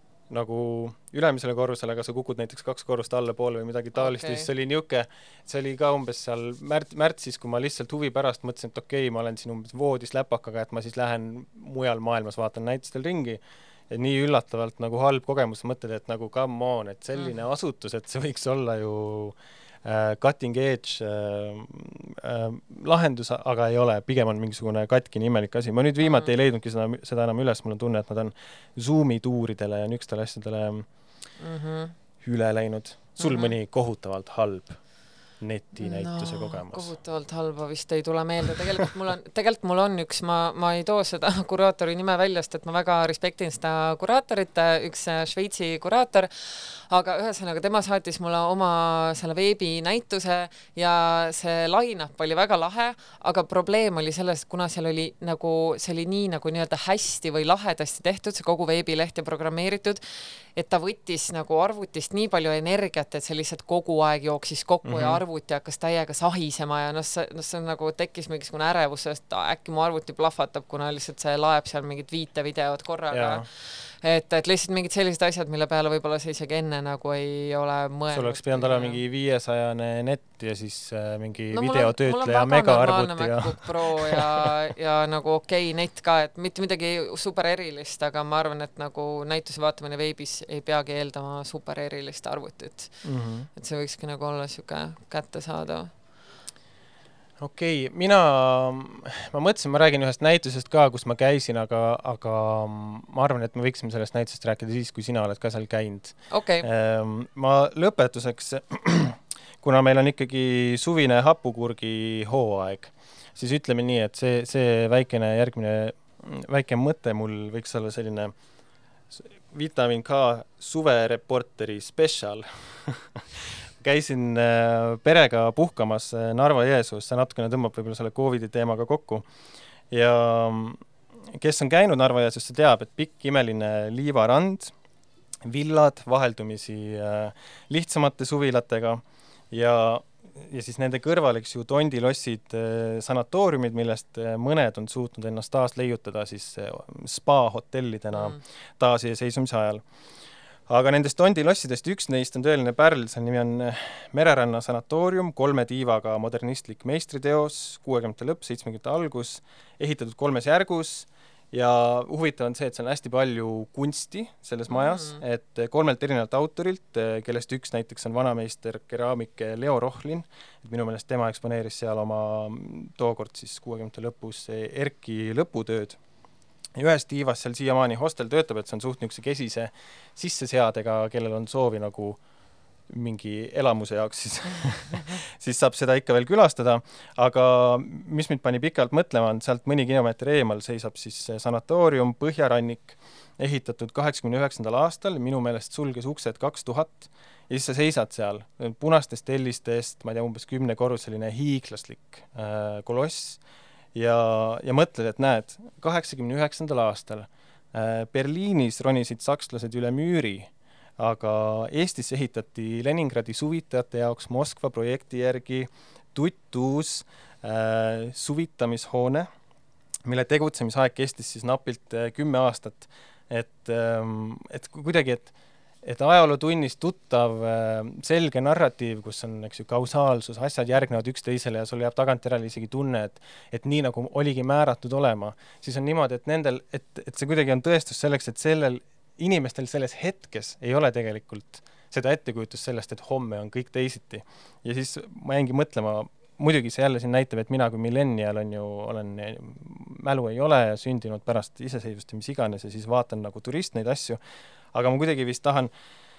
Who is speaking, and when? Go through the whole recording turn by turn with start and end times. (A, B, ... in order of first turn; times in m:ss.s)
0:00.3-0:30.9 A
0:04.0-0:04.5 B
0:26.0-0:26.3 B
0:31.4-0:32.0 B
0:32.2-0:34.8 A
0:33.2-0:33.5 B
0:35.4-0:36.9 A
0:35.8-1:19.0 B
1:04.8-1:05.2 A
1:13.1-1:13.5 A
1:18.1-1:24.5 A
1:21.5-1:33.0 B
1:33.0-1:33.5 A
1:33.6-1:35.9 B
1:37.4-1:58.3 A
1:46.3-1:46.7 B
1:59.1-2:09.2 A
2:09.9-2:14.7 A
2:15.4-2:29.8 A
2:28.1-2:28.4 B
2:30.7-2:56.0 A
2:44.7-2:45.2 B
2:56.8-3:02.2 A
3:02.9-3:23.4 A
3:23.9-3:39.3 A
3:40.0-3:45.3 A
3:45.8-4:14.2 A
4:14.7-4:15.7 A